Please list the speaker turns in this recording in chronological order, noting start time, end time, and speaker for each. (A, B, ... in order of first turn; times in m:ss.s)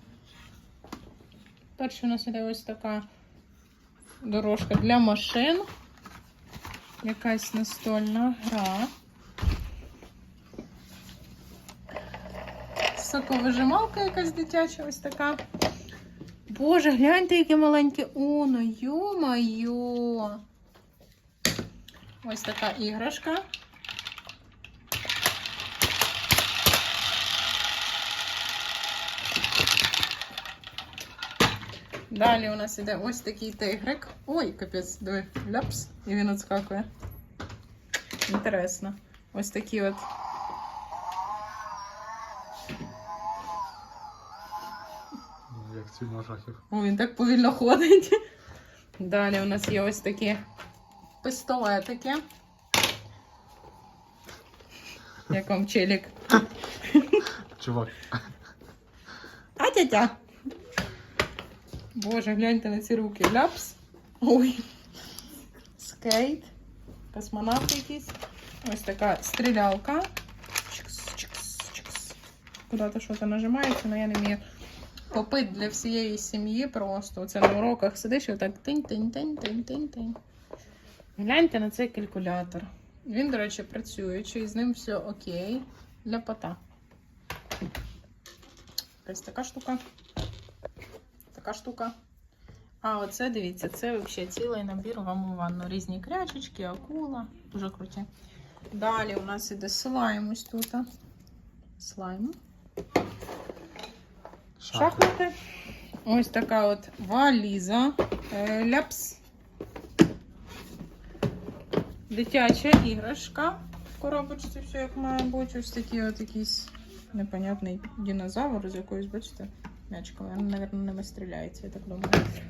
0:01.8-0:03.1 A
0:04.2-0:05.7 A
0:07.0-0:08.9 A
0:12.9-0:15.4 A
0:16.5-0:20.4 A
0:22.2-0:23.4 A
0:32.1-0:36.9 A
0:38.2-0:40.0 A
0:45.5-0:46.6 B
0:46.7-0:48.2 A
0:49.0-0:50.4 A
0:51.2-0:52.2 A
0:55.3-0:57.3 A
0:57.6-0:58.1 B
0:59.6-1:00.2 A
1:01.9-1:04.6 A
1:05.8-1:06.5 A
1:07.1-1:10.1 A
1:10.7-1:12.2 A
1:12.7-1:14.4 A
1:15.1-1:20.2 A
1:21.2-1:26.6 A
1:29.0-1:29.8 A
1:31.3-1:31.9 A
1:32.8-1:38.1 A
1:38.7-1:40.9 A
1:41.8-1:42.4 A
1:44.6-1:45.1 B
1:44.7-1:45.3 A
1:46.0-1:49.2 A
1:52.1-2:02.2 A